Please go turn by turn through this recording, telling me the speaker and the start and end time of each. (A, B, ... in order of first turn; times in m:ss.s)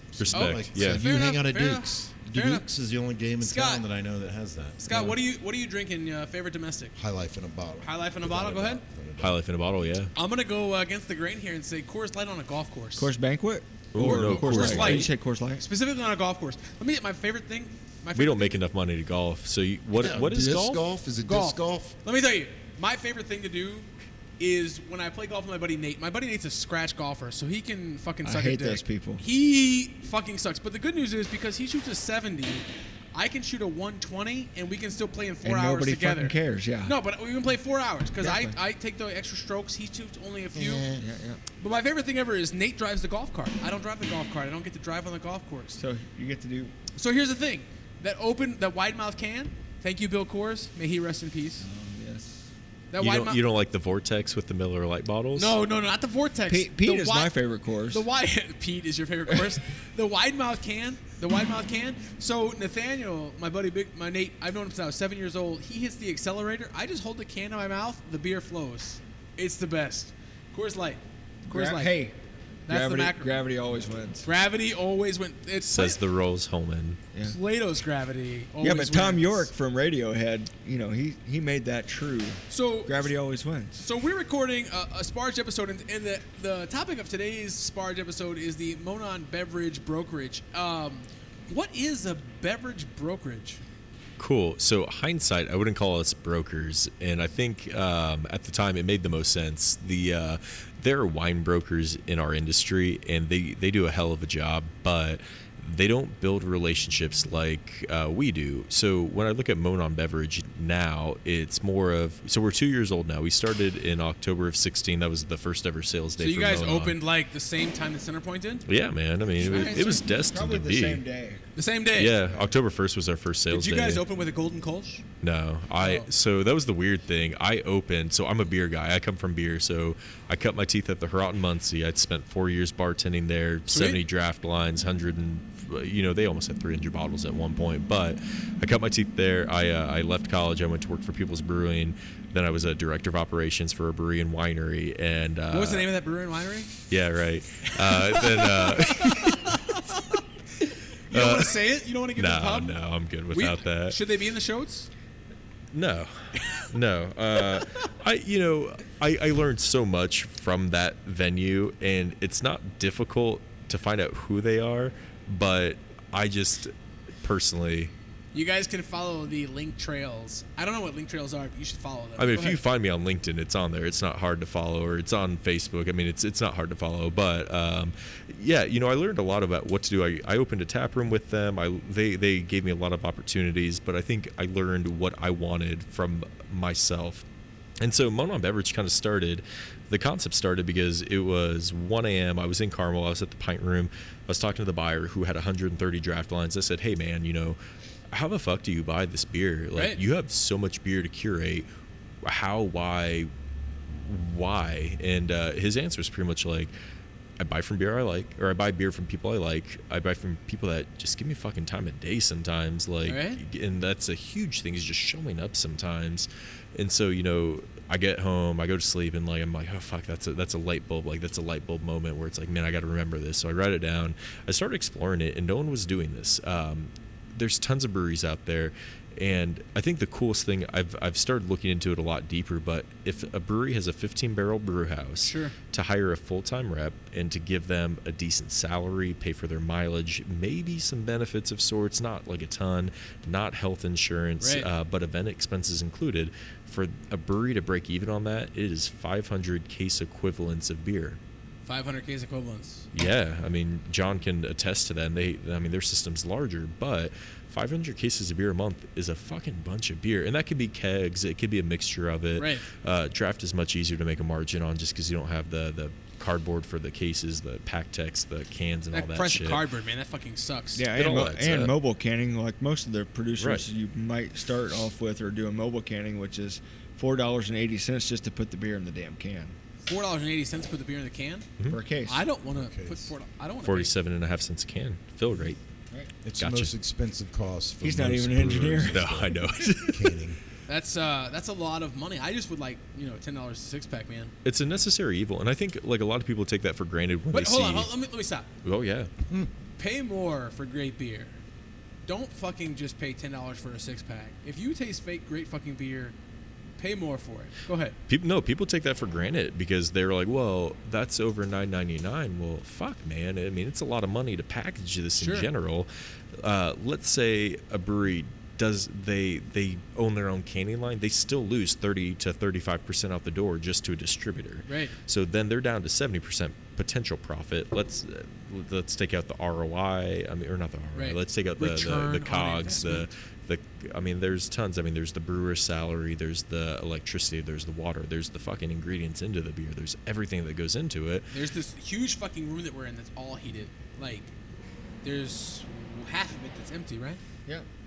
0:00.2-0:05.1 A
0:00.2-0:01.0 B
0:00.3-0:02.7 C
0:03.4-0:03.9 C
0:04.8-0:07.0 C
0:07.0-0:09.4 A
0:07.8-0:08.8 C
0:09.2-0:10.1 B
0:10.2-0:13.1 C
0:13.0-0:15.6 D
0:13.9-0:15.1 B
0:14.1-0:18.6 C
0:18.2-0:20.9 B
0:20.0-0:22.0 A
0:21.2-0:40.8 C
0:28.2-0:29.2 D
0:35.4-0:36.9 D
0:38.2-0:38.6 D
0:40.8-0:41.4 D
0:41.6-0:45.8 C
0:45.8-0:46.7 D
0:47.0-0:51.7 C
0:51.6-0:52.5 D
0:52.9-0:53.4 C
0:53.0-0:55.6 B
0:55.4-0:57.4 C
0:56.5-0:58.0 D
0:57.9-1:12.0 C
1:11.5-1:12.2 D
1:12.7-1:13.3 C
1:12.7-1:14.3 D
1:14.2-1:16.0 C
1:15.6-1:17.0 B
1:17.3-1:19.5 C
1:18.6-1:23.8 D
1:22.5-1:23.1 C
1:23.8-1:33.6 C
1:34.2-1:57.0 B
1:56.2-1:58.7 C
1:58.7-2:01.0 B
1:59.4-2:00.0 C
1:59.4-2:01.4 D
2:01.6-2:02.2 C
2:02.0-2:04.0 B
2:03.5-2:05.0 C
2:05.2-2:25.9 B
2:05.8-2:06.1 C
2:13.7-2:14.0 C
2:25.5-2:26.7 C
2:26.9-2:29.8 B
2:27.8-2:30.2 C
2:31.1-2:32.8 C
2:31.1-2:31.6 B
2:32.2-2:34.0 B
2:33.3-2:34.9 C
2:35.7-2:47.9 B
2:48.3-2:52.6 C
2:52.2-3:07.2 B
3:07.8-3:17.6 B
3:18.1-3:21.7 B
3:19.8-3:20.0 C
3:22.2-3:23.3 B
3:23.9-3:26.7 B
3:27.4-4:11.2 B
3:33.1-3:33.4 C
3:55.2-3:55.5 C
4:04.4-4:04.7 C
4:11.7-4:12.9 C
4:12.9-4:29.6 B
4:22.4-4:22.7 C
4:28.9-4:30.9 C
4:30.8-4:39.6 D
4:31.0-4:31.8 B
4:33.4-4:33.6 B
4:39.9-4:41.5 C
4:41.7-4:42.2 D
4:42.1-4:43.9 C
4:42.5-4:43.1 A
4:43.6-4:45.6 B
4:46.2-4:50.4 A
4:46.4-4:46.7 B
4:47.8-4:49.0 D
4:48.9-4:50.2 B
4:50.7-4:54.3 C
4:54.4-4:57.9 B
4:57.3-4:58.5 C
4:58.6-4:59.1 B
4:59.8-5:01.4 C
5:02.1-5:06.2 C
5:06.8-5:08.0 C
5:08.1-5:41.3 B
5:15.2-5:15.5 C
5:24.7-5:24.9 C
5:31.0-5:33.1 C
5:41.3-5:44.3 C
5:45.0-5:47.2 C